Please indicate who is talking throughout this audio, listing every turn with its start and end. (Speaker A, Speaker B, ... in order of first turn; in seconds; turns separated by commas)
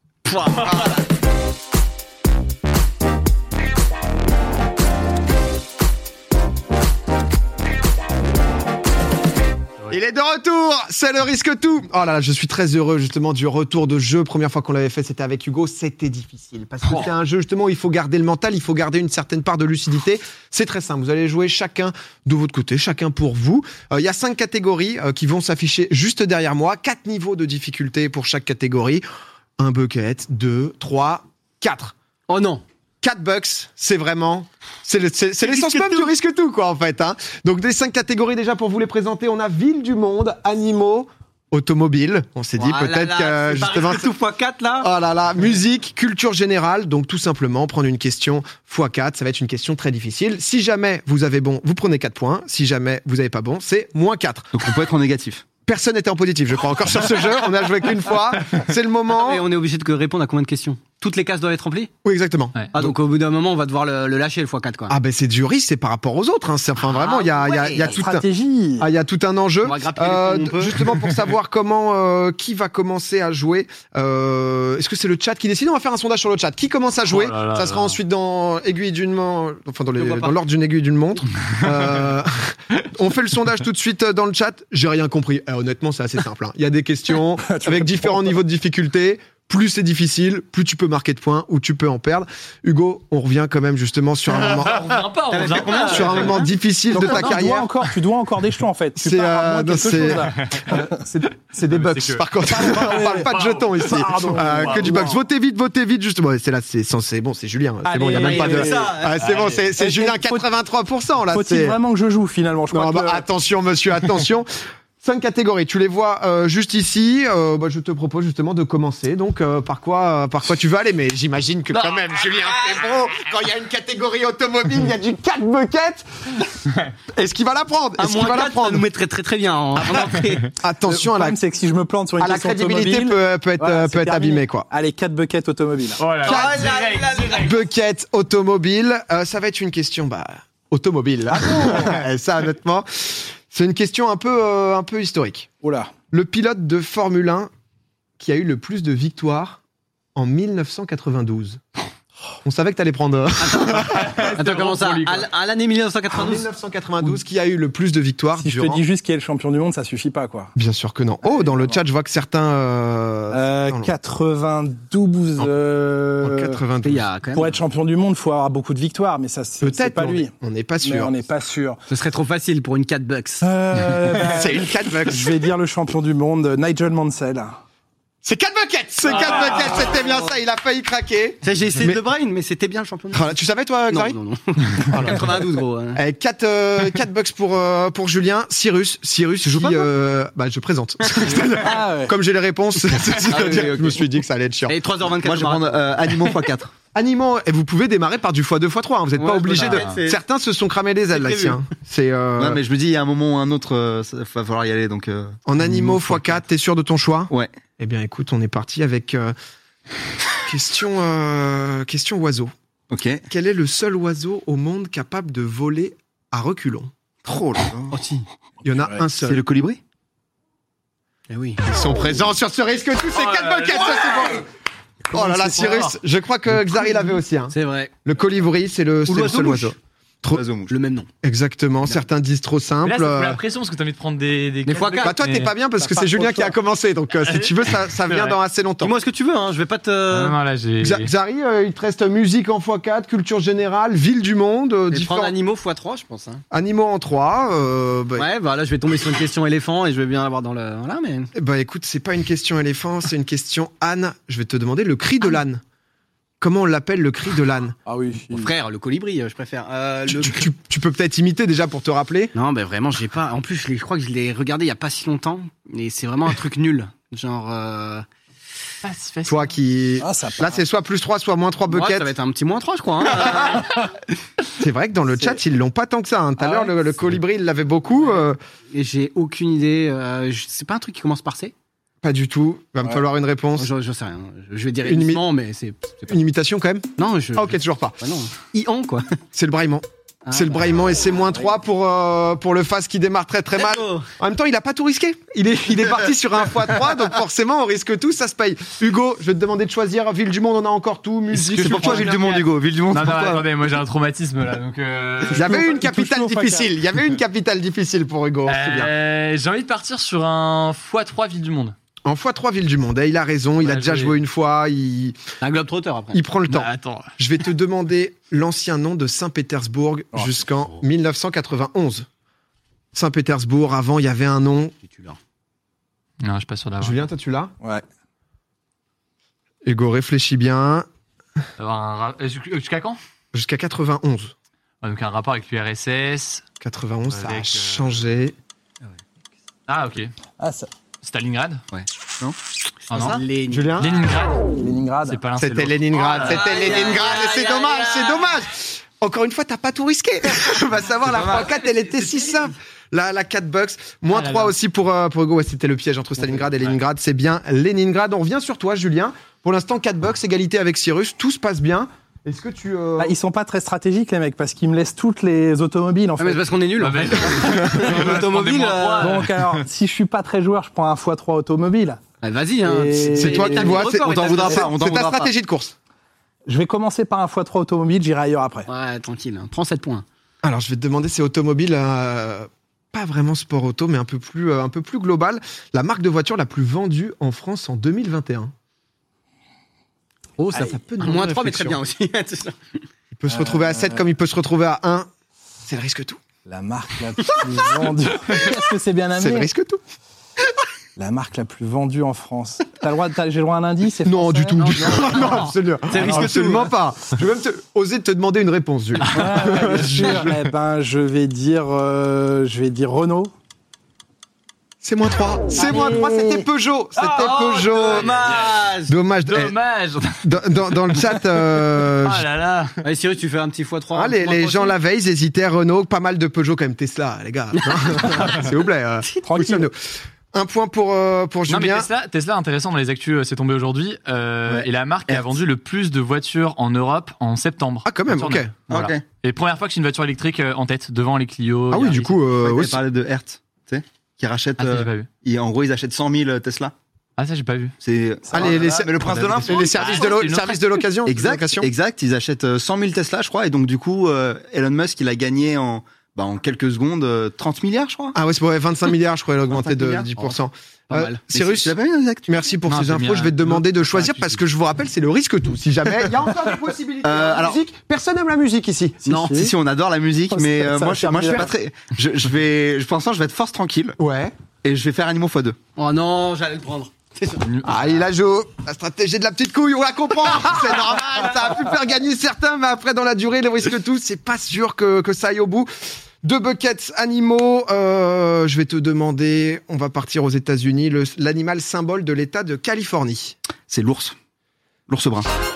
Speaker A: 0.2-1.0, Speaker B: 9.9-29.0, Speaker B: 29.6-31.9, Speaker A: 32.3-32.6, Speaker B: 33.0-44.1, Speaker A: 35.4-36.1, Speaker A: 42.6-44.9, Speaker B: 44.8-54.5, Speaker C: 54.5-55.5, Speaker B: 55.6-59.5, Speaker A: 59.1-61.9, Speaker B: 62.0-62.9, Speaker A: 62.7-65.0, Speaker B: 64.9-68.3, Speaker A: 66.8-68.0, Speaker D: 67.8-68.9, Speaker B: 68.8-95.0, Speaker A: 69.6-70.9, Speaker E: 77.0-78.0, Speaker A: 80.0-80.3, Speaker D: 87.4-88.3, Speaker E: 94.3-96.5, Speaker A: 95.3-96.5, Speaker B: 95.6-97.7, Speaker D: 96.9-101.3, Speaker B: 99.0-111.8, Speaker E: 100.3-100.7, Speaker E: 101.7-105.1, Speaker D: 102.5-105.2, Speaker D: 107.8-109.0, Speaker A: 108.2-109.7, Speaker D: 109.8-110.5, Speaker D: 111.3-113.2, Speaker B: 112.7-114.5, Speaker B: 115.0-126.6, Speaker B: 127.1-128.8, Speaker A: 128.0-130.5, Speaker B: 130.6-131.4, Speaker D: 130.9-136.1, Speaker B: 132.2-134.7, Speaker E: 136.0-137.5, Speaker A: 136.2-137.6, Speaker B: 136.2-145.5, Speaker D: 145.6-145.9, Speaker B: 146.1-147.5, Speaker B: 148.2-149.6, Speaker B: 150.2-151.6, Speaker B: 152.4-154.3, Speaker A: 153.4-156.5, Speaker E: 153.9-155.3, Speaker B: 156.1-158.8, Speaker D: 158.4-160.5, Speaker B: 160.6-163.9, Speaker D: 161.3-161.8, Speaker D: 163.3-166.6, Speaker B: 166.2-167.0, Speaker A: 166.8-167.6, Speaker D: 167.3-171.8, Speaker B: 169.6-171.1, Speaker A: 171.9-173.5, Speaker D: 173.4-177.6, Speaker B: 174.3-175.4, Speaker B: 178.2-182.0, Speaker E: 179.3-179.8, Speaker A: 181.4-183.3, Speaker B: 183.1-184.2, Speaker A: 183.9-186.0, Speaker B: 184.9-185.4, Speaker B: 185.9-194.8, Speaker A: 189.4-189.9, Speaker D: 191.6-192.1, Speaker A: 193.2-194.0, Speaker A: 194.7-196.3, Speaker C: 195.2-196.7, Speaker B: 196.9-202.6, Speaker A: 199.2-200.2, Speaker E: 199.5-200.0, Speaker A: 201.1-201.6, Speaker C: 202.4-206.4, Speaker B: 205.4-209.3, Speaker B: 210.4-212.5, Speaker C: 212.9-213.2, Speaker B: 213.3-216.9, Speaker C: 217.2-218.0, Speaker A: 217.9-218.2, Speaker B: 218.6-219.4, Speaker D: 218.7-219.0, Speaker C: 219.2-219.8, Speaker A: 221.3-221.6, Speaker B: 221.6-224.5, Speaker E: 223.1-224.3, Speaker B: 225.1-227.5, Speaker E: 225.4-225.9, Speaker A: 227.5-227.9, Speaker B: 228.0-230.4, Speaker C: 229.1-229.8, Speaker C: 230.3-230.7, Speaker A: 230.7-231.1, Speaker B: 231.2-233.4, Speaker E: 232.8-235.5, Speaker A: 234.7-235.2, Speaker B: 235.0-238.9, Speaker D: 235.8-236.5, Speaker E: 237.2-238.3, Speaker A: 238.8-240.3, Speaker E: 240.1-241.1, Speaker B: 240.8-245.3, Speaker A: 244.9-246.4, Speaker B: 246.5-248.3, Speaker A: 248.2-251.3, Speaker B: 251.3-255.6, Speaker B: 256.4-257.8, Speaker D: 257.9-258.5, Speaker A: 258.3-260.5, Speaker B: 260.1-262.3, Speaker A: 262.3-268.1, Speaker E: 268.8-269.5, Speaker B: 269.2-272.1, Speaker D: 270.0-270.6, Speaker A: 271.7-273.7, Speaker B: 274.6-278.4, Speaker D: 276.4-276.7, Speaker A: 278.7-281.5, Speaker B: 282.0-283.7, Speaker A: 283.6-286.1, Speaker B: 284.8-285.2, Speaker B: 286.1-288.0, Speaker A: 287.0-289.2, Speaker B: 289.3-302.3, Speaker A: 290.2-290.6, Speaker A: 293.5-294.1, Speaker C: 301.3-303.4, Speaker A: 301.7-302.4, Speaker E: 302.9-305.6, Speaker D: 305.3-306.7, Speaker B: 305.3-308.9, Speaker E: 308.5-311.7, Speaker B: 312.1-315.2, Speaker E: 313.6-314.1, Speaker A: 315.4-316.2, Speaker B: 316.1-322.1, Speaker E: 316.5-317.1, Speaker B: 322.9-324.7, Speaker A: 324.8-325.2, Speaker E: 326.2-327.0, Speaker B: 326.8-327.5, Speaker B: 329.6-330.9, Speaker E: 331.6-333.0, Speaker B: 333.3-334.3, Speaker E: 334.8-336.4, Speaker B: 336.6-338.3, Speaker E: 337.1-338.0, Speaker E: 339.7-340.1, Speaker D: 340.4-340.7, Speaker E: 341.0-341.6, Speaker C: 341.7-342.4, Speaker A: 342.9-343.8, Speaker E: 342.9-343.2, Speaker B: 343.5-344.0, Speaker E: 343.8-344.5, Speaker D: 344.6-345.2, Speaker E: 345.0-346.8, Speaker B: 345.4-363.1, Speaker A: 346.1-348.3, Speaker E: 354.1-354.5, Speaker D: 363.0-366.4, Speaker A: 366.2-369.3, Speaker E: 366.8-369.3, Speaker D: 369.0-372.0, Speaker A: 372.2-374.7, Speaker D: 372.6-373.8, Speaker B: 373.1-375.7, Speaker C: 373.7-375.3, Speaker D: 376.4-378.7, Speaker A: 378.7-380.1, Speaker B: 380.4-388.5, Speaker A: 390.4-392.8, Speaker B: 390.5-391.8, Speaker B: 393.1-395.1, Speaker D: 393.3-394.1, Speaker B: 395.6-396.2, Speaker D: 396.4-399.5, Speaker B: 399.2-399.8, Speaker D: 401.0-404.9, Speaker B: 404.0-410.3, Speaker A: 404.6-406.7, Speaker D: 409.1-413.3, Speaker B: 414.8-418.2, Speaker D: 415.5-416.4, Speaker A: 417.1-418.9, Speaker E: 417.8-418.7, Speaker B: 418.9-419.6, Speaker E: 419.2-420.2, Speaker B: 420.2-422.2, Speaker E: 420.9-422.8, Speaker A: 422.8-424.7, Speaker B: 423.9-431.9, Speaker A: 427.6-428.3, Speaker D: 429.2-429.7, Speaker E: 431.5-442.2, Speaker B: 437.9-438.5, Speaker C: 438.7-439.0, Speaker B: 441.7-442.8, Speaker C: 442.4-446.7, Speaker E: 444.6-445.1, Speaker E: 447.2-447.8, Speaker C: 447.8-450.1, Speaker D: 448.3-448.9, Speaker B: 448.3-451.7, Speaker E: 449.0-450.8, Speaker C: 451.1-458.2, Speaker B: 458.1-461.7, Speaker C: 459.5-460.1, Speaker A: 460.9-461.2, Speaker C: 461.3-462.4, Speaker B: 462.3-469.0, Speaker E: 462.7-464.3, Speaker C: 467.0-467.6, Speaker D: 469.0-469.5, Speaker A: 469.1-469.4, Speaker C: 469.2-474.0, Speaker D: 470.3-471.5, Speaker B: 474.0-474.3, Speaker C: 474.6-475.6, Speaker A: 475.8-477.4, Speaker E: 477.4-478.0, Speaker B: 477.6-485.7, Speaker B: 486.2-493.4, Speaker C: 493.7-494.1, Speaker C: 494.9-495.3